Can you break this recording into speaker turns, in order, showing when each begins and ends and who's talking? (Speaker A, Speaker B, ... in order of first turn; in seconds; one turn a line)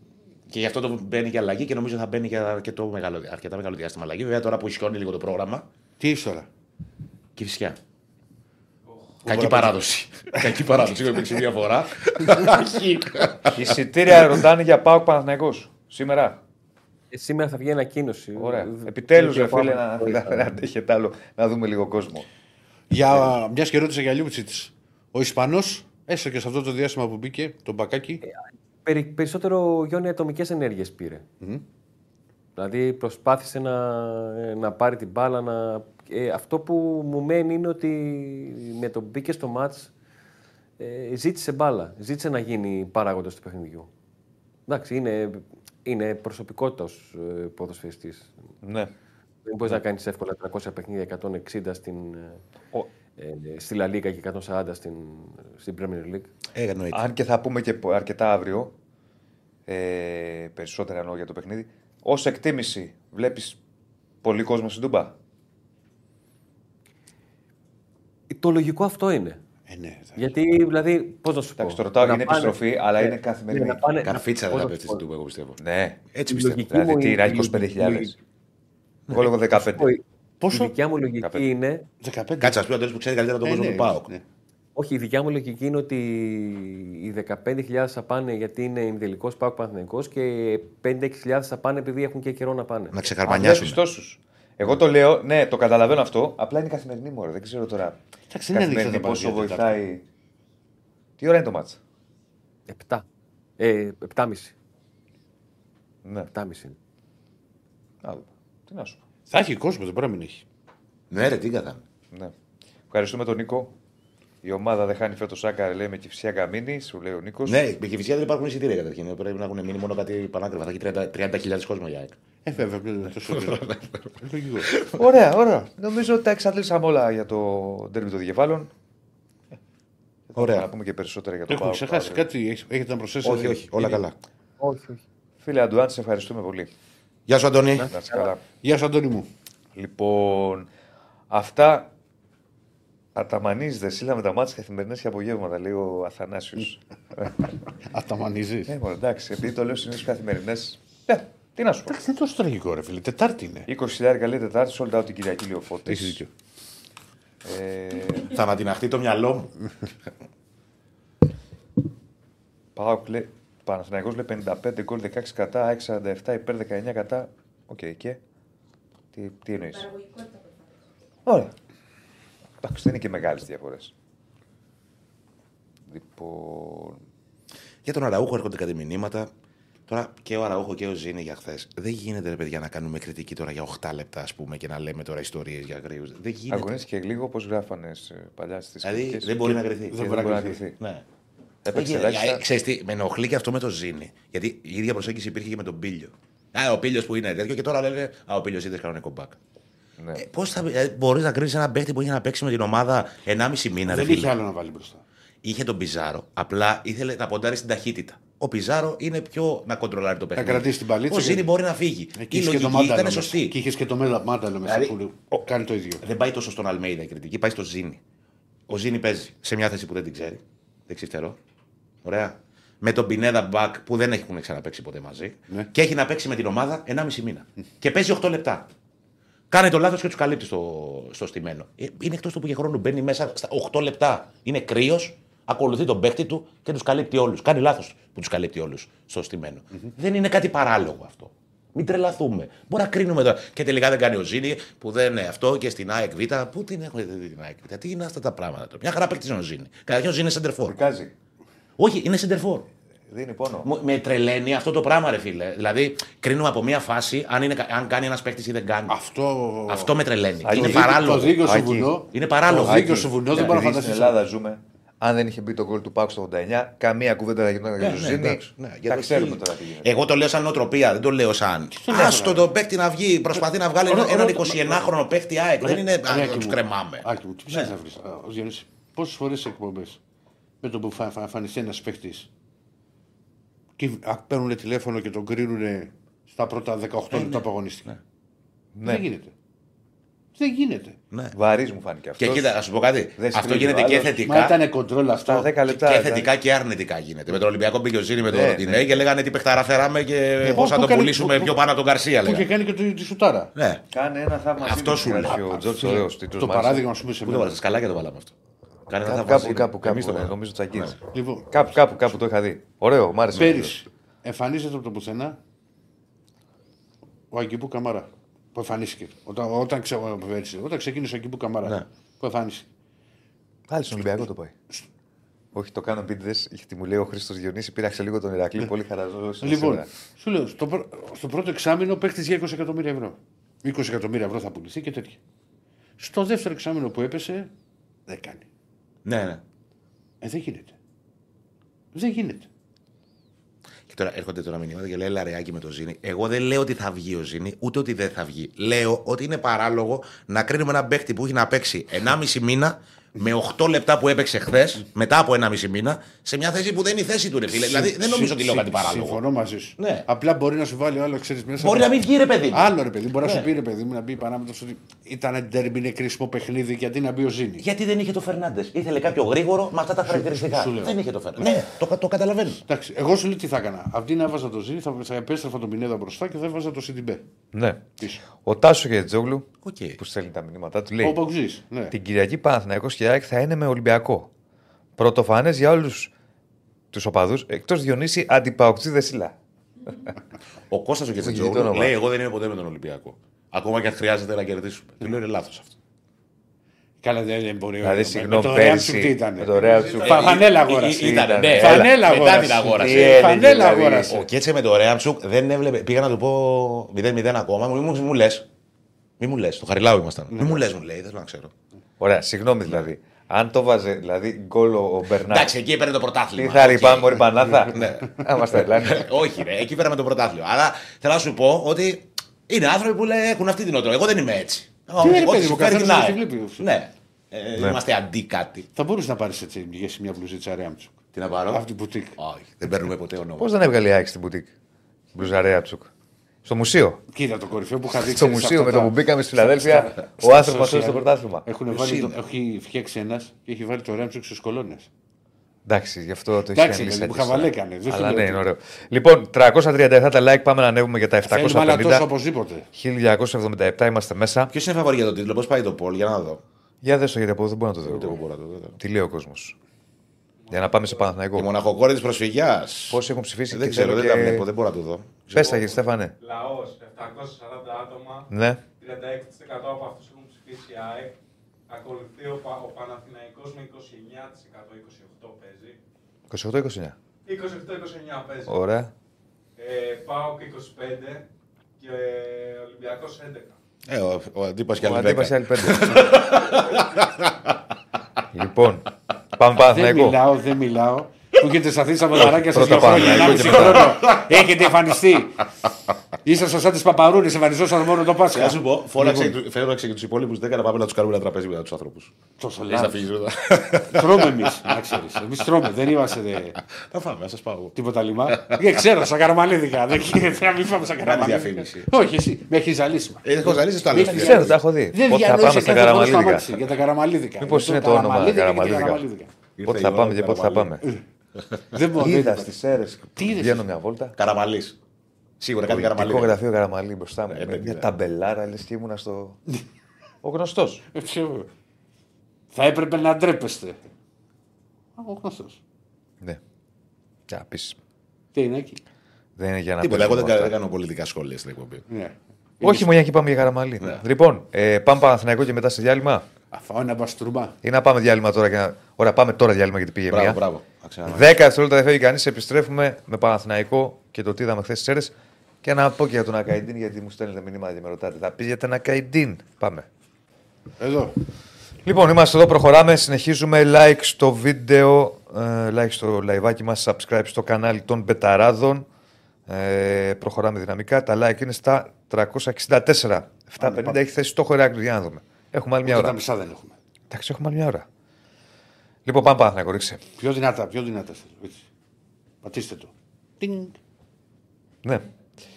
Speaker A: 0.5-5.7
Speaker B: 6.0-6.5
Speaker A: 7.4-7.8
Speaker B: 9.2-9.7
Speaker A: 9.3-13.8
Speaker C: 13.5-16.4
Speaker D: 17.1-20.6
Speaker C: 18.4-22.3
Speaker B: 22.9-28.2
Speaker D: 28.2-31.2
Speaker D: 32.6-39.9
Speaker D: 40.8-43.9
Speaker D: 44.7-48.4
Speaker C: 48.6-48.9
Speaker D: 49.5-52.4
Speaker D: 53.2-56.3
Speaker A: 56.5-57.0
Speaker C: 56.9-58.7
Speaker C: 59.7-63.6
Speaker C: 64.2-65.2
Speaker D: 68.3-69.4
Speaker B: 69.7-70.3
Speaker D: 70.2-75.0
Speaker C: 71.6-73.9
Speaker A: 74.0-75.6
Speaker C: 75.6-76.0
Speaker A: 76.1-76.7
Speaker D: 76.3-78.1
Speaker C: 76.7-78.2
Speaker C: 79.1-79.9
Speaker D: 79.2-81.9
Speaker B: 80.4-80.7
Speaker B: 82.0-82.6
Speaker A: 82.4-84.1
Speaker B: 83.4-84.2
Speaker D: 84.8-93.1
Speaker A: 92.9-93.8
Speaker C: 93.3-98.0
Speaker B: 98.3-99.8
Speaker C: 98.5-100.0
Speaker C: 101.2-101.8
Speaker D: 102.7-103.0
Speaker D: 103.6-104.5
Speaker C: 106.0-106.3
Speaker D: 106.3-106.8
Speaker C: 108.0-109.0
Speaker B: 109.3-110.4
Speaker A: 111.1-111.8
Speaker C: 112.9-113.7
Speaker C: 114.4-117.6
Speaker A: 117.5-122.2
Speaker B: 122.5-124.7
Speaker A: 123.2-124.1
Speaker A: 124.6-125.1
Speaker C: 125.0-128.7
Speaker C: 130.3-132.3
Speaker A: 130.4-130.7
Speaker B: 131.5-134.0
Speaker A: 133.2-134.2
Speaker D: 134.6-135.0
Speaker C: 135.4-136.7
Speaker A: 137.3-137.9
Speaker D: 137.8-138.3
Speaker C: 137.9-138.4
Speaker B: 138.6-139.3
Speaker C: 139.8-140.7
Speaker C: 141.3-141.9
Speaker C: 143.2-147.4
Speaker B: 147.9-148.8
Speaker C: 148.7-152.1
Speaker B: 151.9-153.7
Speaker C: 153.7-156.2
Speaker B: 155.9-156.3
Speaker C: 157.4-158.4
Speaker A: 158.3-159.5
Speaker C: 162.8-168.2
Speaker C: 169.1-170.2
Speaker C: 171.2-171.5
Speaker C: 172.6-173.9
Speaker C: 175.9-177.0
Speaker A: 177.8-179.3
Speaker A: 179.9-186.7
Speaker C: 186.5-190.8
Speaker A: 188.8-191.0
Speaker B: 189.5-190.6
Speaker C: 191.6-192.4
Speaker A: 191.7-199.4
Speaker C: 200.0-200.2
Speaker A: 200.2-204.3
Speaker B: 203.9-205.0
Speaker A: 205.4-213.6
Speaker B: 210.4-211.5
Speaker B: 212.2-216.0
Speaker A: 214.7-214.9
Speaker A: 216.0-218.0
Speaker A: 218.7-221.4
Speaker A: 222.0-228.7
Speaker A: 229.5-250.8
Speaker C: 250.7-251.1
Speaker A: 251.8-252.7
Speaker C: 253.1-253.7
Speaker A: 253.6-259.0
Speaker B: 258.9-259.9
Speaker A: 259.7-261.4
Speaker C: 260.4-262.0
Speaker B: 260.5-264.2
Speaker A: 262.1-263.6
Speaker C: 262.6-269.9
Speaker A: 267.8-277.7
Speaker B: 271.7-272.5
Speaker B: 273.9-274.9
Speaker B: 275.6-280.0
Speaker B: 280.6-282.3
Speaker B: 283.8-287.9
Speaker A: 287.1-288.0
Speaker C: 288.8-289.1
Speaker B: 288.8-289.3
Speaker B: 290.4-291.0
Speaker A: 291.1-291.4
Speaker C: 291.3-292.5
Speaker A: 292.2-294.6
Speaker C: 293.2-294.2
Speaker B: 294.2-295.5
Speaker C: 295.2-296.3
Speaker A: 295.7-302.5
Speaker C: 298.3-298.9
Speaker B: 300.4-301.6
Speaker B: 302.2-303.5
Speaker A: 303.6-303.8
Speaker C: 303.9-306.9
Speaker A: 304.6-305.4
Speaker B: 305.3-307.6
Speaker A: 307.2-308.3
Speaker A: 308.9-311.0
Speaker C: 309.1-311.0
Speaker B: 311.1-311.8
Speaker C: 311.5-313.8
Speaker B: 313.4-315.4
Speaker B: 317.3-322.7
Speaker C: 323.7-324.6
Speaker C: 325.5-329.9
Speaker B: 329.4-335.2
Speaker B: 336.0-337.5
Speaker B: 338.1-338.5
Speaker A: 339.1-339.4
Speaker B: 340.2-340.8
Speaker B: 341.9-342.5
Speaker A: 343.9-359.2
Speaker B: 357.5-361.9
Speaker A: 359.8-360.1
Speaker A: 361.6-363.5
Speaker B: 362.5-367.6
Speaker A: 367.6-372.6
Speaker B: 370.1-371.6
Speaker B: 372.7-377.3
Speaker C: 377.5-377.8
Speaker C: 378.4-379.5
Speaker A: 379.6-380.0
Speaker C: 380.0-381.2
Speaker B: 381.0-381.9
Speaker C: 381.9-384.3
Speaker C: 385.0-386.1
Speaker C: 386.9-389.4
Speaker A: 390.7-395.7
Speaker C: 391.2-391.9
Speaker B: 397.0-404.3
Speaker C: 397.8-400.2
Speaker E: 399.6-399.9
Speaker A: 400.0-408.5
Speaker C: 400.9-402.0
Speaker C: 402.8-403.6
Speaker A: 409.2-411.5
Speaker B: 410.3-410.7
Speaker C: 412.0-415.6
Speaker A: 415.3-428.7
Speaker C: 416.4-419.1
Speaker B: 425.0-426.7
Speaker C: 427.6-427.8
Speaker B: 428.8-430.9
Speaker A: 431.1-431.6
Speaker B: 431.5-432.1
Speaker A: 432.2-433.5
Speaker C: 433.4-434.5
Speaker C: 435.1-435.9
Speaker C: 436.4-437.0
Speaker B: 437.1-444.9
Speaker C: 438.1-441.5
Speaker A: 441.7-442.2
Speaker C: 445.7-452.1
Speaker B: 446.5-448.4
Speaker B: 451.2-452.7
Speaker C: 452.7-454.5
Speaker A: 454.5-456.4
Speaker C: 456.8-458.2
Speaker A: 457.9-458.8
Speaker C: 458.8-459.6
Speaker E: 460.5-461.0
Speaker C: 460.5-461.5
Speaker A: 461.4-465.6
Speaker C: 462.9-464.4
Speaker C: 465.3-466.1
Speaker E: 466.2-471.1
Speaker C: 468.3-468.6
Speaker E: 471.7-475.8
Speaker C: 476.3-477.0
Speaker E: 477.2-478.5
Speaker C: 478.5-478.9
Speaker E: 479.6-481.2
Speaker E: 481.8-483.5
Speaker A: 483.9-487.5
Speaker C: 484.8-486.1
Speaker C: 488.3-490.2
Speaker B: 489.7-495.4
Speaker C: 492.5-494.0
Speaker A: 492.6-494.9
Speaker B: 496.2-499.4
Speaker A: 498.3-502.1
Speaker B: 502.4-503.1
Speaker A: 502.7-505.0
Speaker B: 503.8-506.6
Speaker A: 506.8-507.8
Speaker B: 507.8-519.3
Speaker A: 508.3-508.6
Speaker A: 511.0-511.9
Speaker A: 513.2-514.6
Speaker C: 514.0-516.5
Speaker C: 517.4-519.0
Speaker A: 519.6-520.7
Speaker C: 519.6-520.9
Speaker B: 521.7-522.5
Speaker C: 521.9-524.1
Speaker B: 523.2-523.7
Speaker A: 524.2-524.8
Speaker A: 525.4-526.4
Speaker C: 525.7-529.4
Speaker A: 527.3-527.9
Speaker C: 530.2-530.9
Speaker B: 530.9-531.5
Speaker B: 532.5-533.8
Speaker B: 535.0-535.6
Speaker C: 537.3-537.8
Speaker B: 538.3-538.8
Speaker C: 539.4-540.6
Speaker A: 539.8-541.9
Speaker B: 541.9-542.9
Speaker C: 542.6-546.3
Speaker B: 546.5-547.6
Speaker C: 547.6-550.4
Speaker A: 550.1-551.3
Speaker C: 551.1-559.9
Speaker B: 560.8-561.2
Speaker C: 561.8-568.9
Speaker C: 569.5-576.2
Speaker B: 573.6-574.0
Speaker B: 575.8-576.8
Speaker C: 577.1-577.9
Speaker C: 579.1-580.0
Speaker B: 580.2-581.6
Speaker B: 582.4-583.8